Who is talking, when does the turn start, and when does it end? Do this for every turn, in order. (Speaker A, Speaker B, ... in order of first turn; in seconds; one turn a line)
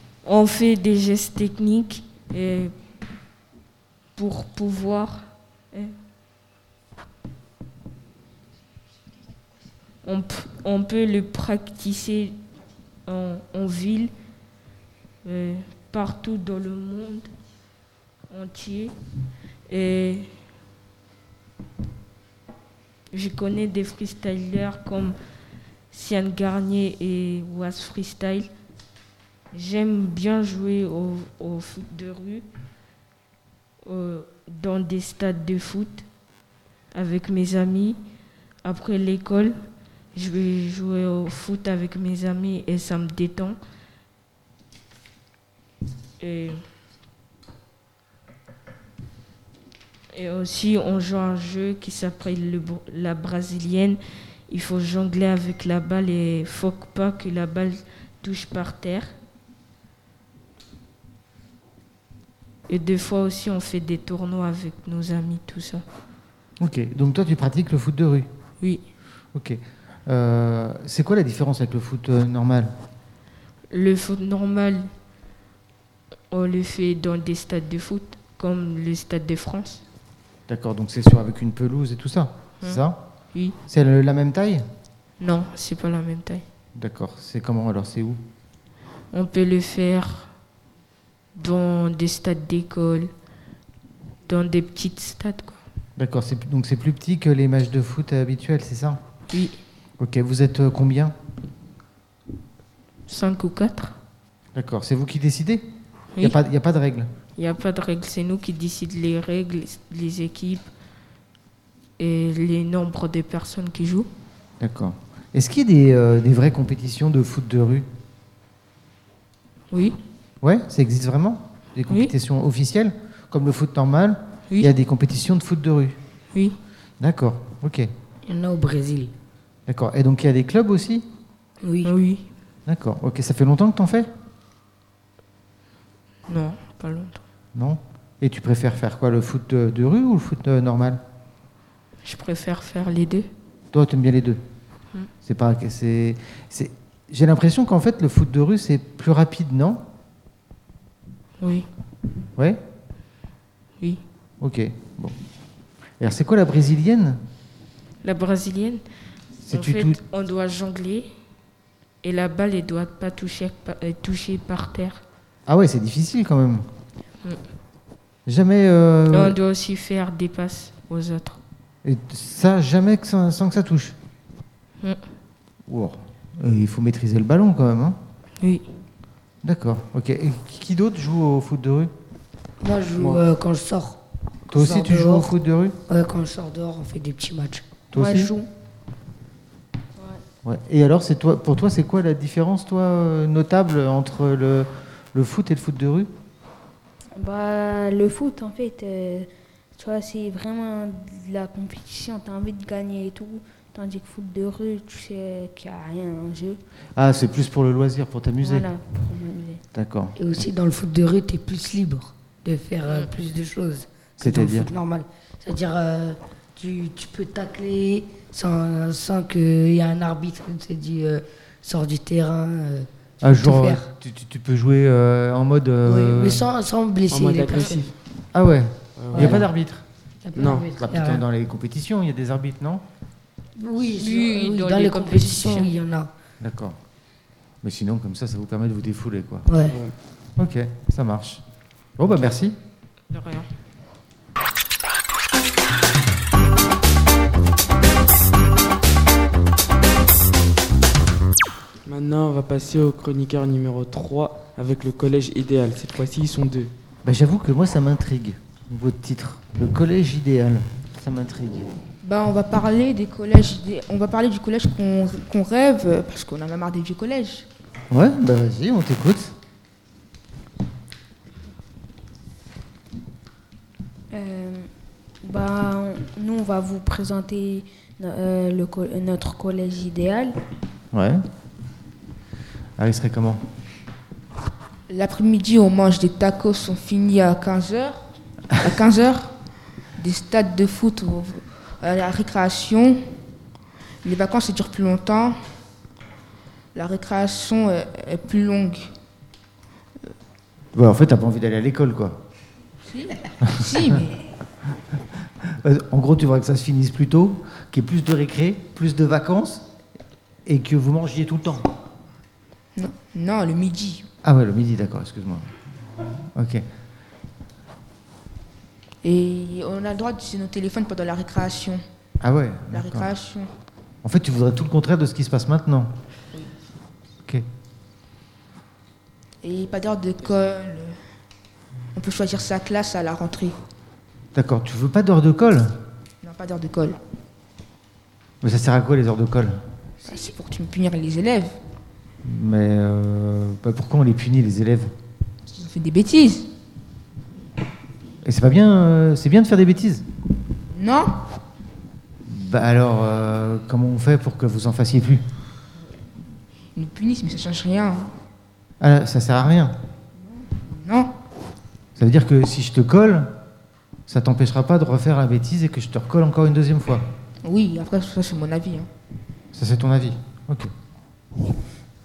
Speaker A: 0.2-2.7
Speaker A: 4.2-5.9
Speaker A: 10.0-12.3
Speaker A: 13.1-14.1
Speaker A: 15.2-17.3
Speaker A: 18.3-18.9
Speaker A: 19.7-20.3
Speaker A: 23.1-25.1
Speaker A: 25.9-28.5
Speaker A: 29.5-32.5
Speaker A: 33.8-36.0
Speaker A: 36.9-38.0
Speaker A: 38.6-39.6
Speaker A: 40.1-43.6
Speaker A: 46.2-46.6
Speaker A: 50.1-59.1
Speaker A: 62.7-65.8
Speaker B: 66.6-68.3
Speaker B: 69.3-72.7
Speaker A: 73.7-74.9
Speaker A: 76.3-79.8
Speaker B: 80.5-83.0
Speaker B: 83.7-84.6
Speaker A: 85.2-86.4
Speaker B: 86.8-88.2
Speaker A: 89.1-90.3
Speaker A: 91.3-93.1
Speaker A: 94.3-95.6
Speaker B: 96.0-99.0
Speaker A: 99.3-99.6
Speaker B: 100.0-101.1
Speaker A: 103.1-104.0
Speaker B: 104.5-105.6
Speaker B: 106.2-107.1
Speaker A: 107.4-110.7
Speaker A: 112.0-114.1
Speaker B: 114.6-117.9
Speaker A: 119.7-120.0
Speaker B: 120.4-126.0
Speaker B: 127.0-127.9
Speaker C: 128.2-129.1
Speaker B: 129.7-131.1
Speaker C: 131.6-131.9
Speaker A: 131.8-132.3
Speaker B: 132.7-134.1
Speaker A: 136.3-137.2
Speaker B: 137.5-141.0
Speaker A: 142.0-143.3
Speaker B: 143.7-144.4
Speaker B: 145.2-149.8
Speaker A: 151.4-151.7
Speaker B: 154.4-155.2
Speaker B: 156.0-157.2
Speaker A: 158.0-158.8
Speaker B: 159.4-160.0
Speaker A: 159.4-161.1
Speaker A: 162.0-165.0
Speaker B: 165.5-166.7
Speaker B: 168.3-169.4
Speaker A: 169.1-171.4
Speaker B: 171.8-174.0
Speaker B: 175.7-178.0
Speaker B: 179.4-181.9
Speaker C: 182.6-184.0
Speaker B: 183.0-183.2
Speaker C: 184.5-185.3
Speaker B: 184.5-185.8
Speaker C: 185.9-187.7
Speaker B: 187.9-188.3
Speaker D: 187.9-188.5
Speaker B: 190.4-196.1
Speaker D: 197.2-206.6
Speaker B: 206.9-208.7
Speaker D: 208.4-209.6
Speaker B: 209.7-210.1
Speaker C: 210.2-223.8
Speaker B: 214.2-214.7
Speaker B: 223.2-226.4
Speaker C: 225.8-227.8
Speaker E: 227.1-227.9
Speaker B: 228.3-229.8
Speaker E: 229.0-229.4
Speaker C: 229.1-229.4
Speaker C: 230.2-231.2
Speaker E: 230.3-230.7
Speaker B: 230.8-232.8
Speaker C: 233.6-236.1
Speaker A: 233.9-235.7
Speaker B: 236.4-236.8
Speaker B: 237.6-239.5
Speaker C: 239.5-239.8
Speaker B: 240.4-241.4
Speaker B: 242.0-242.6
Speaker A: 243.1-243.5
Speaker E: 251.8-256.7
Speaker B: 257.0-261.7
Speaker F: 262.0-267.5
Speaker B: 267.9-269.3
Speaker D: 274.1-274.7
Speaker D: 275.2-280.4
Speaker B: 280.9-281.2
Speaker B: 282.8-283.4
Speaker F: 284.9-288.1
Speaker F: 288.6-289.3
Speaker F: 290.0-293.0
Speaker F: 294.0-295.4
Speaker F: 296.7-298.9
Speaker B: 300.7-302.2
Speaker F: 302.9-304.2
Speaker B: 303.4-304.0
Speaker B: 305.4-309.6
Speaker B: 310.4-311.7
Speaker F: 312.8-314.1
Speaker B: 314.2-315.5
Speaker B: 316.3-316.6
Speaker F: 319.0-321.8
Speaker B: 322.2-323.1
Speaker F: 322.7-323.5
Speaker B: 324.0-325.9
Speaker F: 329.4-331.0
Speaker F: 331.9-333.6
Speaker B: 334.3-335.8
Speaker F: 336.2-337.0
Speaker B: 338.4-339.6
Speaker F: 340.0-341.5
Speaker B: 342.2-344.9
Speaker F: 345.5-346.5
Speaker B: 348.2-350.1
Speaker F: 350.7-351.1
Speaker B: 352.2-355.2
Speaker F: 356.7-358.1
Speaker B: 358.8-359.8
Speaker F: 360.7-361.1
Speaker B: 361.9-363.3
Speaker B: 364.1-367.1
Speaker F: 367.4-368.9
Speaker B: 369.5-370.7